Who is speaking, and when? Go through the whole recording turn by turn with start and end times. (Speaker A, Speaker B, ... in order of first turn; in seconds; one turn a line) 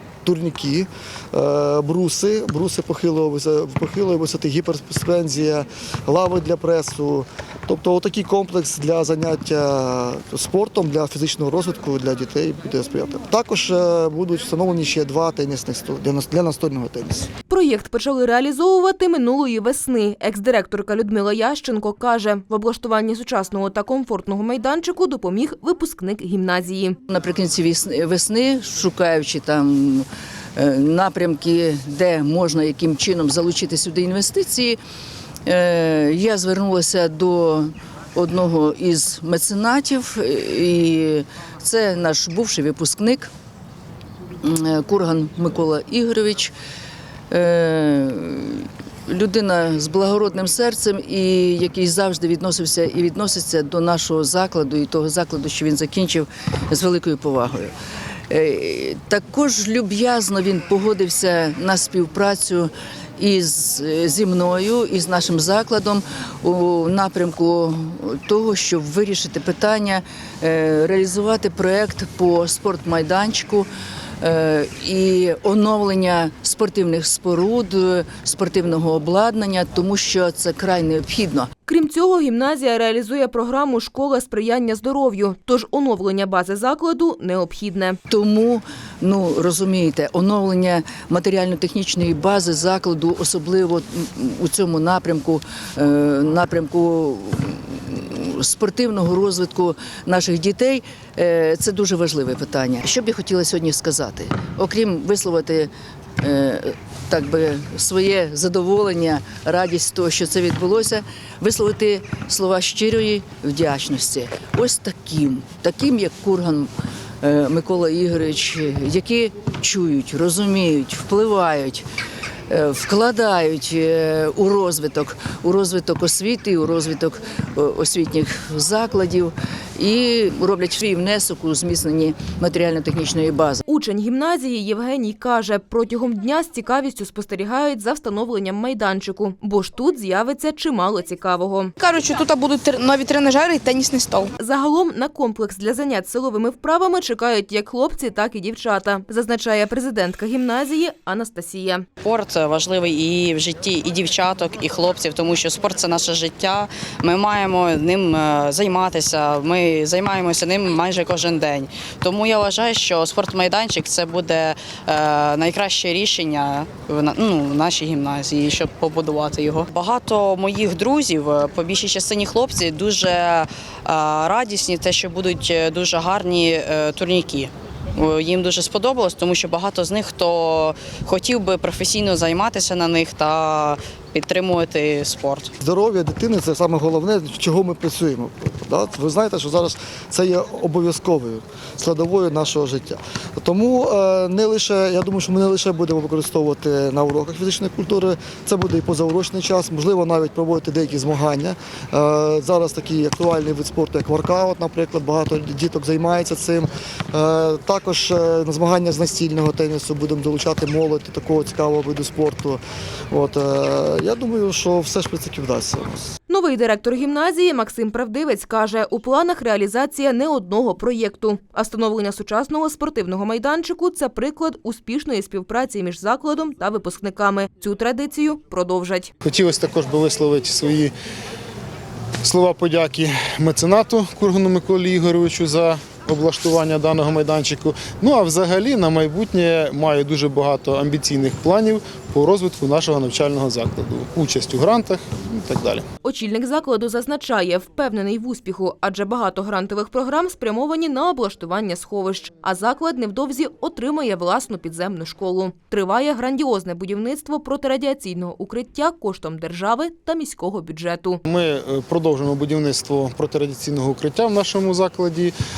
Speaker A: 0.2-17.3
Speaker B: 17.5-27.0
Speaker C: 27.1-34.8
Speaker C: 35.5-43.3
Speaker C: 44.4-46.5
Speaker C: 47.3-57.7
Speaker C: 58.3-73.7
Speaker C: 74.2-81.5
Speaker B: 81.7-88.0
Speaker C: 88.1-116.7
Speaker C: 117.2-121.8
Speaker C: 122.5-133.6
Speaker B: 133.7-141.7
Speaker D: 141.8-144.3
Speaker B: 144.4-151.8
Speaker E: 152.0-185.5
Speaker A: 185.6-216.1
Speaker B: 216.3-229.1
Speaker F: 229.2-230.9
Speaker F: 232.2-245.8
Speaker B: 246.0-261.2
Speaker F: 261.2-265.3